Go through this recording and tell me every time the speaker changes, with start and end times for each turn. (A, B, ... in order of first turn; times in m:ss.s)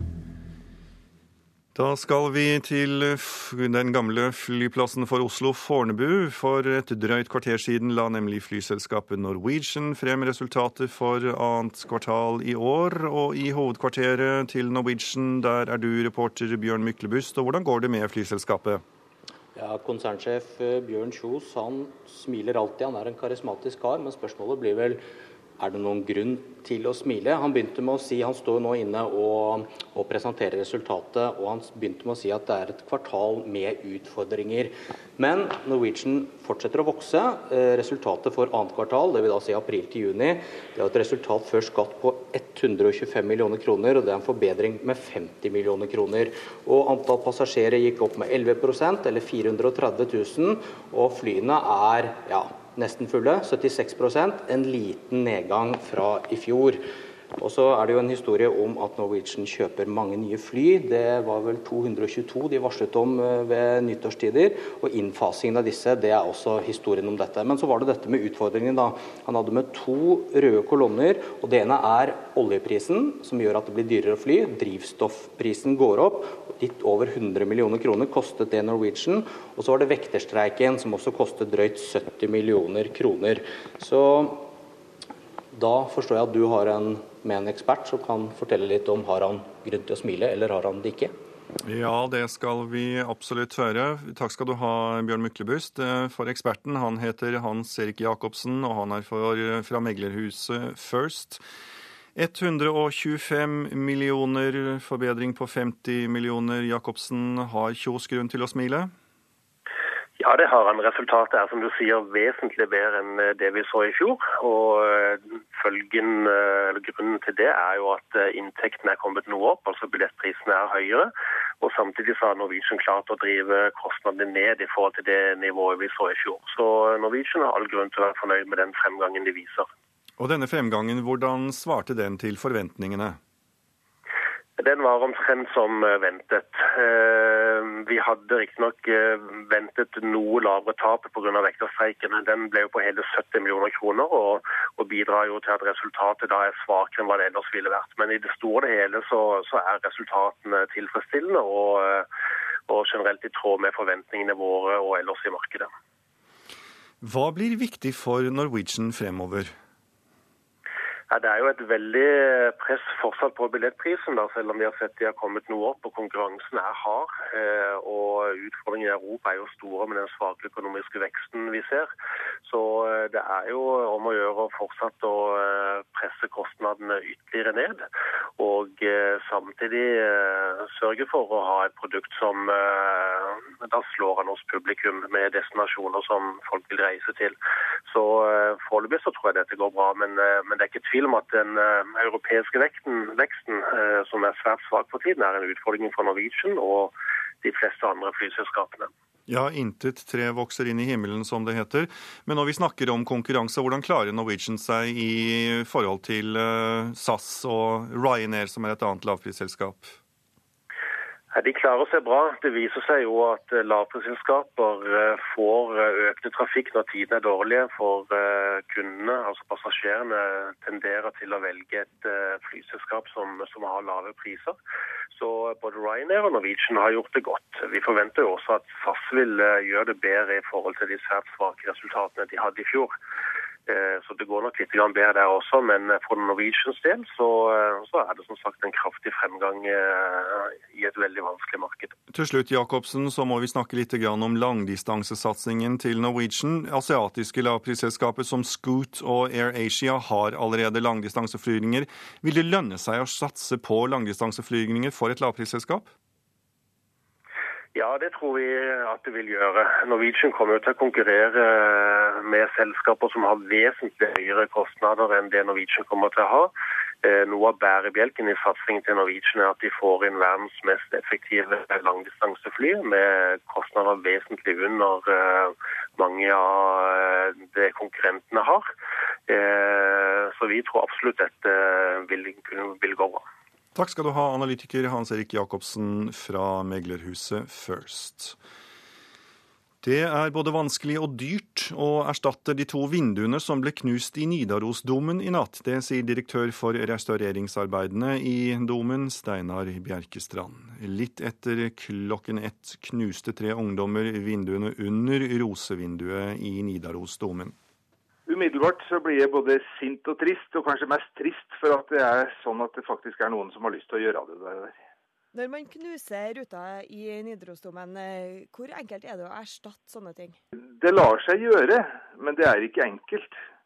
0:01.7-0:18.8 A
0:19.6-0:25.0 B
0:25.6-0:56.8 B
0:57.4-1:24.5 B
1:25.5-1:31.1 B
1:31.6-1:41.4 A
1:42.2-1:48.9 A
1:50.2-2:09.7 C
2:10.2-2:13.2 A
2:14.6-2:32.0 C
2:32.7-2:35.7 C
2:37.0-2:39.5 A
2:41.1-2:51.9 C
2:52.4-2:57.9 C
2:58.4-3:07.4 C
3:07.9-3:18.9 C
3:19.3-3:29.9 A
3:31.3-3:44.6 C
3:45.1-3:52.9 C
3:53.7-4:01.9 C
4:02.1-4:15.9 A
4:17.7-4:26.5 C
4:27.0-4:38.7 C
4:39.3-4:43.2 C
4:43.7-4:48.4 A
4:49.8-5:07.5 A
5:08.3-5:14.7 D
5:15.3-5:20.4 E
5:20.8-5:23.4 D